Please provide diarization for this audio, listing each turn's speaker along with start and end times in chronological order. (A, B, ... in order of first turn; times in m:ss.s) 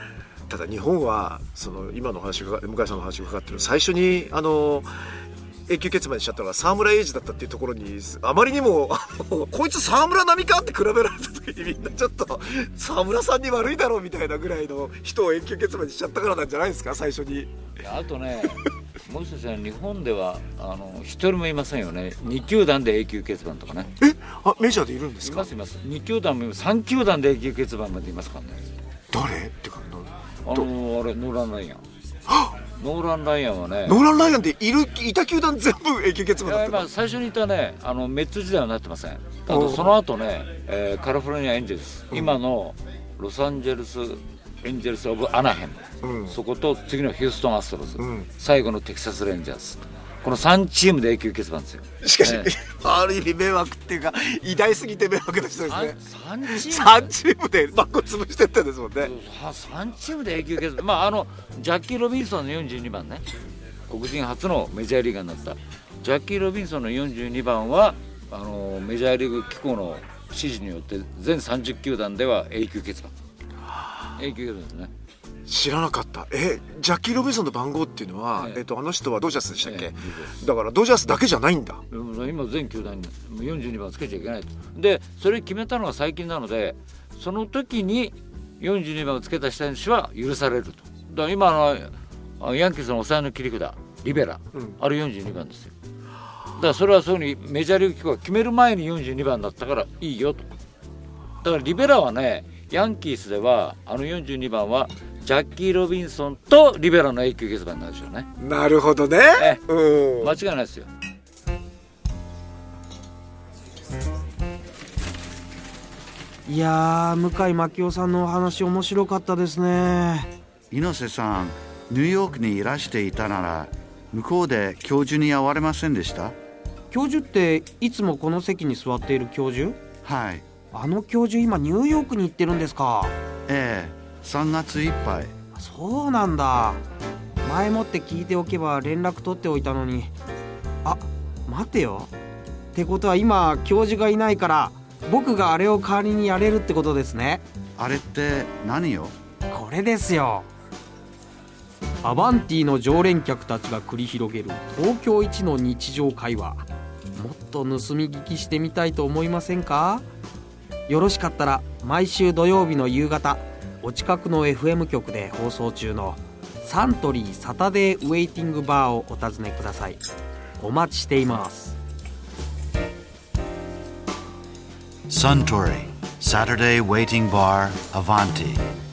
0:00.5-0:04.9 A
0:05.7-0:17.5 A
0:17.8-0:23.9 B
0:24.0-0:25.5 A
0:25.2-0:28.6 B
0:29.1-0:30.7 A
0:30.4-0:31.8 B
0:32.3-0:32.5 A
0:32.8-0:34.0 B
0:33.8-0:36.9 A
0:36.4-0:52.5 B
0:39.5-0:39.9 A
0:46.0-0:46.4 A
0:48.0-0:48.3 A
0:52.0-0:59.1 A
0:55.7-0:57.2 B
0:59.0-1:03.3 B
1:03.9-1:13.1 B
1:14.2-1:14.9 B
1:15.5-1:21.8 A
1:18.4-1:18.6 B
1:19.6-1:20.4 B
1:21.9-1:35.7 B
1:36.6-1:40.5 B
1:41.4-1:48.3 B
1:48.4-1:50.3 A
1:49.3-1:50.9 B
1:56.4-2:00.3 C
2:00.7-2:06.3 D
2:06.9-2:09.8 C
2:10.0-2:10.4 D
2:10.7-2:13.1 C
2:13.5-2:15.3 D
2:15.5-2:16.8 C
2:17.4-2:20.1 C
2:20.8-2:22.1 C
2:22.7-2:27.4 C
2:27.8-2:29.1 D
2:29.5-2:30.5 C
2:32.0-2:40.0 C
2:40.9-2:50.0 C
2:50.6-2:51.8 C
2:55.1-2:58.6 D